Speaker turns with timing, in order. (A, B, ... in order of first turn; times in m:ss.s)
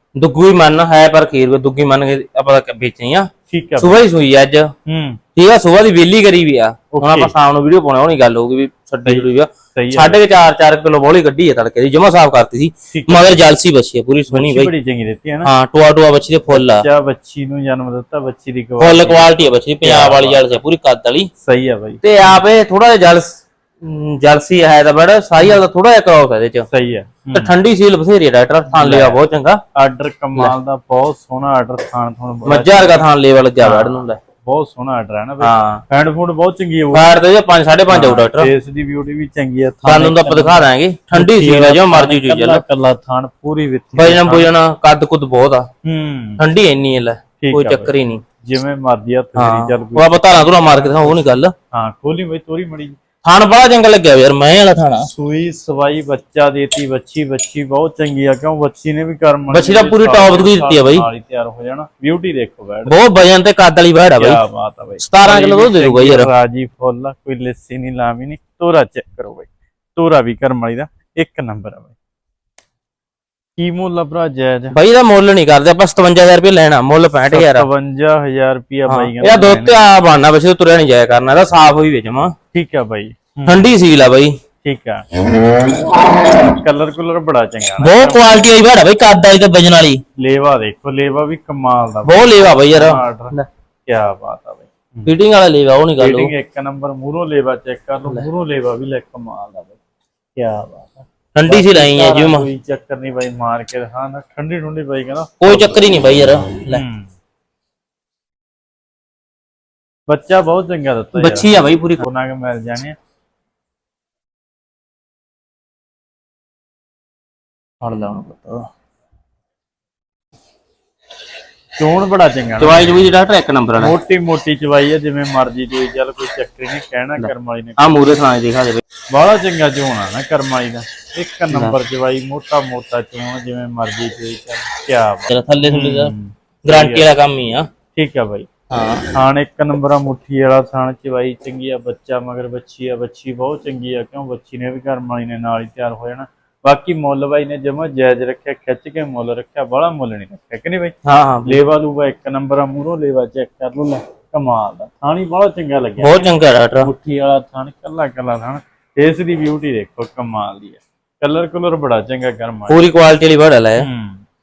0:00.2-0:03.3 A
0:03.5-0:04.0 B
0:03.8-0:04.7 A
0:04.9-0:05.2 B
0:05.4-0:14.7 A
0:06.9-0:07.3 B
0:09.0-0:10.2 B
0:12.9-0:13.4 B
0:14.3-0:15.5 B
0:15.4-0:16.8 A
0:16.5-0:20.6 B
0:18.8-0:21.3 A
0:21.4-0:22.0 B
0:22.0-0:26.7 A
0:26.7-0:27.5 B
0:27.3-0:29.6 A
0:28.7-0:29.2 B
0:29.8-0:33.0 B
0:32.4-0:34.2 A
0:33.6-0:37.2 B
0:35.4-0:35.8 A
0:36.9-0:38.5 A
0:37.9-0:44.5 B
0:39.8-0:42.6 A
0:43.9-0:45.6 A
0:45.8-0:46.4 B
0:46.4-0:48.2 A
0:47.4-0:47.9 B
0:48.4-0:51.2 B
0:49.4-0:51.5 A
0:51.7-0:53.0 B
0:53.2-0:55.1 A
0:55.1-1:03.0 B
0:59.5-1:01.0 A
1:02.8-1:04.4 A
1:04.2-1:11.9 B
1:05.0-1:06.3 A
1:13.6-1:14.8 B
1:14.7-1:17.7 A
1:17.3-1:19.8 B
1:18.9-1:22.3 A
1:22.5-1:23.7 B
1:23.4-1:24.3 A
1:24.6-1:25.1 B
1:26.2-1:28.2 B
1:27.8-1:30.0 A
1:30.2-1:33.3 B
1:32.0-1:33.5 A
1:33.9-1:35.1 B
1:35.0-1:36.3 A
1:36.0-1:39.8 B
1:40.4-1:45.7 B
1:41.3-1:42.4 A
1:45.4-1:46.8 A
1:46.7-1:47.1 B
1:50.1-1:52.9 B
1:51.2-1:52.0 A
1:57.8-1:58.7 A
2:01.8-2:03.1 B
2:02.6-2:03.9 A
2:03.8-2:08.0 B
2:07.2-2:08.8 A
2:09.1-2:17.0 B
2:15.3-2:16.1 A
2:16.6-2:17.7 A
2:17.9-2:18.5 B
2:18.7-2:19.1 A
2:19.1-2:42.8 B
2:31.0-2:31.6 A
2:36.0-2:36.9 A
2:42.7-2:43.9 A
2:43.8-2:44.2 B